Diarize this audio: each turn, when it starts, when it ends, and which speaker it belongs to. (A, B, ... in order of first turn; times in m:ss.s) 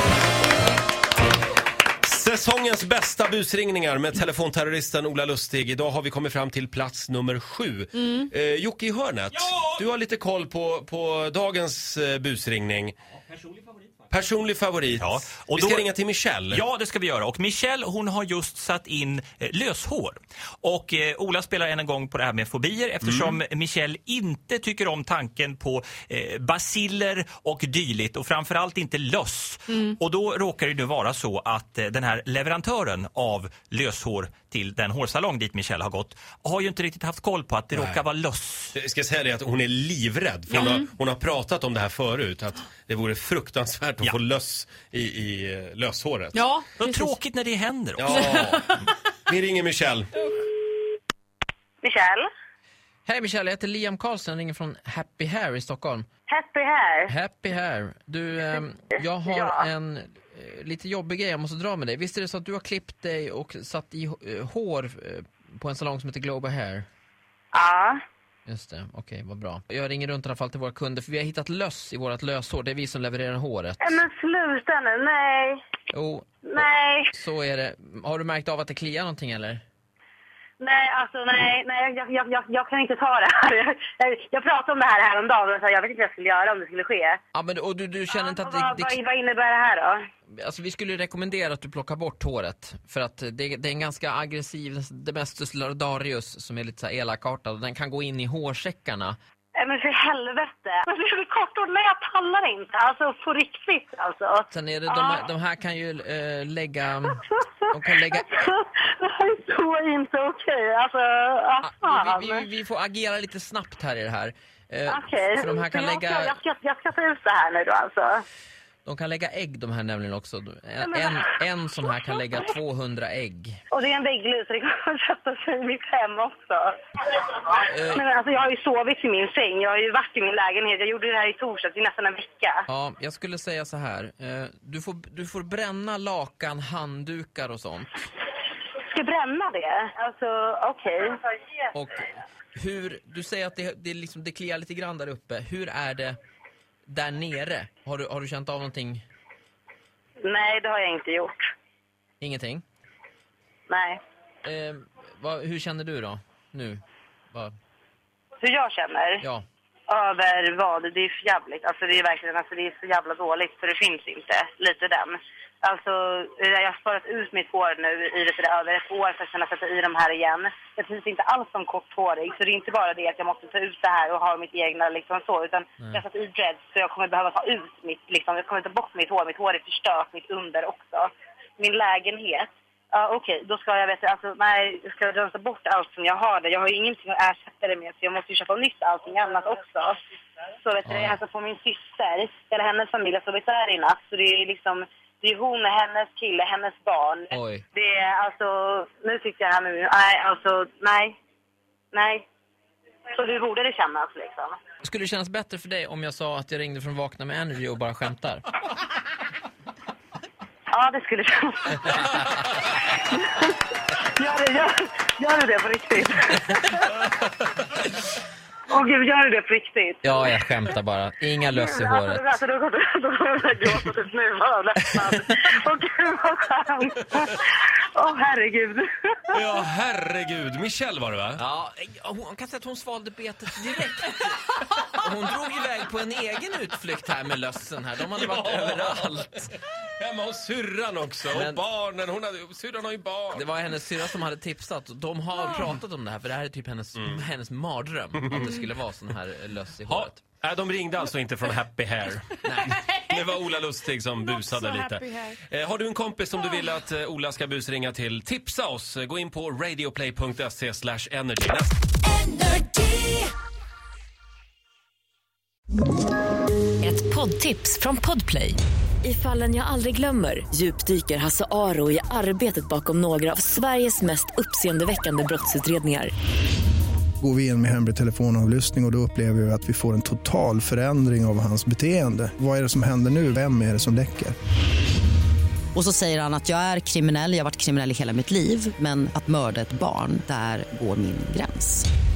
0:02.0-0:13.0 A
0:09.4-0:09.8 B
0:13.3-0:13.9 B
0:14.1-0:16.6 A
0:14.9-0:15.9 B
0:16.5-0:38.8 B
0:23.0-0:23.4 A
0:37.7-0:38.0 A
0:38.8-0:46.5 A
0:46.7-0:48.5 B
0:48.0-0:50.1 A
0:51.8-0:52.3 C
0:53.1-0:56.1 D
0:56.3-0:57.1 C
0:57.1-1:06.9 D
0:59.2-0:59.7 C
1:07.5-1:08.0 C
1:08.5-1:14.0 D
1:13.8-1:15.6 C
1:15.9-1:19.6 D
1:16.4-1:17.1 C
1:20.6-1:27.2 C
1:27.3-1:29.0 D
1:28.1-1:30.0 C
1:30.3-1:39.2 D
1:39.6-1:45.2 C
1:44.5-1:47.2 D
1:47.1-1:52.5 C
1:47.7-1:48.3 D
1:51.6-1:56.4 D
1:54.9-1:58.2 C
1:58.8-2:03.6 D
2:03.7-2:12.6 C
2:07.6-2:08.0 D
2:12.7-2:18.1 D
2:18.8-2:21.2 C
2:21.7-2:26.2 D
2:26.9-2:29.0 D
2:30.2-2:31.4 C
2:32.2-2:32.6 D
2:33.7-2:34.0 C
2:34.4-2:36.8 D
2:38.4-2:39.2 C
2:39.9-3:10.0 C
3:10.6-3:21.2 C
3:10.8-3:11.2 D
3:17.3-3:17.6 D
3:21.9-3:22.2 C
3:23.2-3:24.6 C
3:24.8-3:28.4 D
3:30.7-3:32.1 C
3:32.8-3:37.0 C
3:38.7-3:40.3 C
3:40.0-3:42.4 D
3:41.5-3:49.4 C
3:49.3-3:51.4 A
3:51.4-3:59.5 D
3:58.2-3:59.1 A
4:00.0-4:03.5 A
4:01.3-4:01.6 D
4:03.3-4:10.2 D
4:09.9-4:21.7 A
4:12.4-4:12.9 D
4:22.2-4:23.2 E
4:26.8-4:36.1 E
4:37.2-4:44.4 F
4:45.7-4:51.9 G